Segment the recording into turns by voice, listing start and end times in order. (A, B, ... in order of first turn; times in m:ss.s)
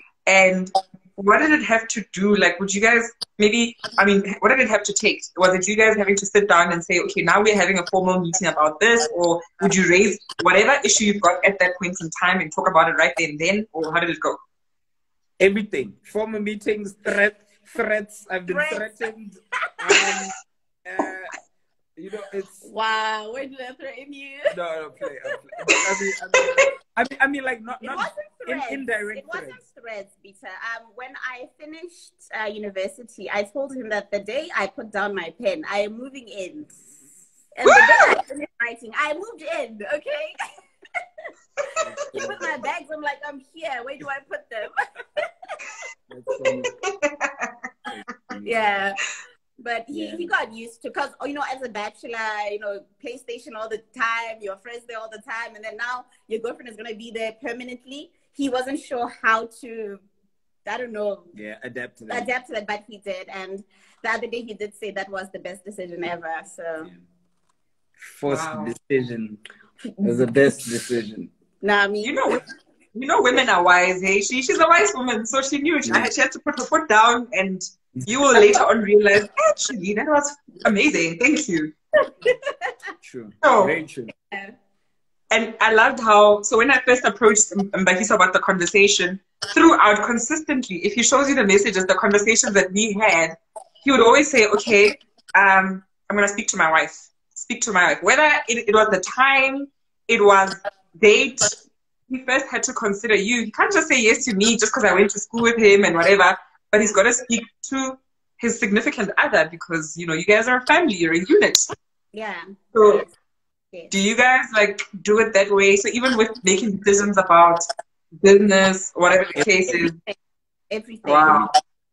0:00.3-0:14.4 A
0:15.4-0:21.3 B
0:18.5-0:19.1 C
0:19.6-0:20.2 C
0:22.0-0:22.6 B
0:22.6-0:24.6 C
0:24.5-0:29.6 B
0:27.8-0:36.8 C
0:37.5-0:40.3 C
0:37.6-0:38.1 A
0:41.6-0:45.3 C
0:41.8-0:42.5 B
0:46.1-0:46.7 B
0:46.5-0:47.5 A
0:47.9-0:48.8 B
0:48.4-0:49.0 C
0:49.6-1:00.0 C
0:49.9-0:50.3 B
1:00.6-1:01.3 C
1:01.3-1:02.3 B
1:02.1-1:06.9 C
1:08.0-1:09.4 B
1:08.3-1:08.7 A
1:10.0-1:10.4 C
1:10.0-1:11.3 B
1:11.6-1:12.4 C
1:12.0-1:12.4 A
1:12.9-1:21.7 A
1:15.8-1:16.1 B
1:22.2-1:22.7 C
1:23.0-1:24.1 B
1:23.4-1:23.8 A
1:25.3-1:51.7 A
1:52.1-1:53.1 C
1:52.7-1:53.0 A
1:53.9-1:57.6 A
1:58.2-2:00.0 A
1:59.7-2:00.2 C
2:00.7-2:01.5 C
2:01.0-2:01.5 A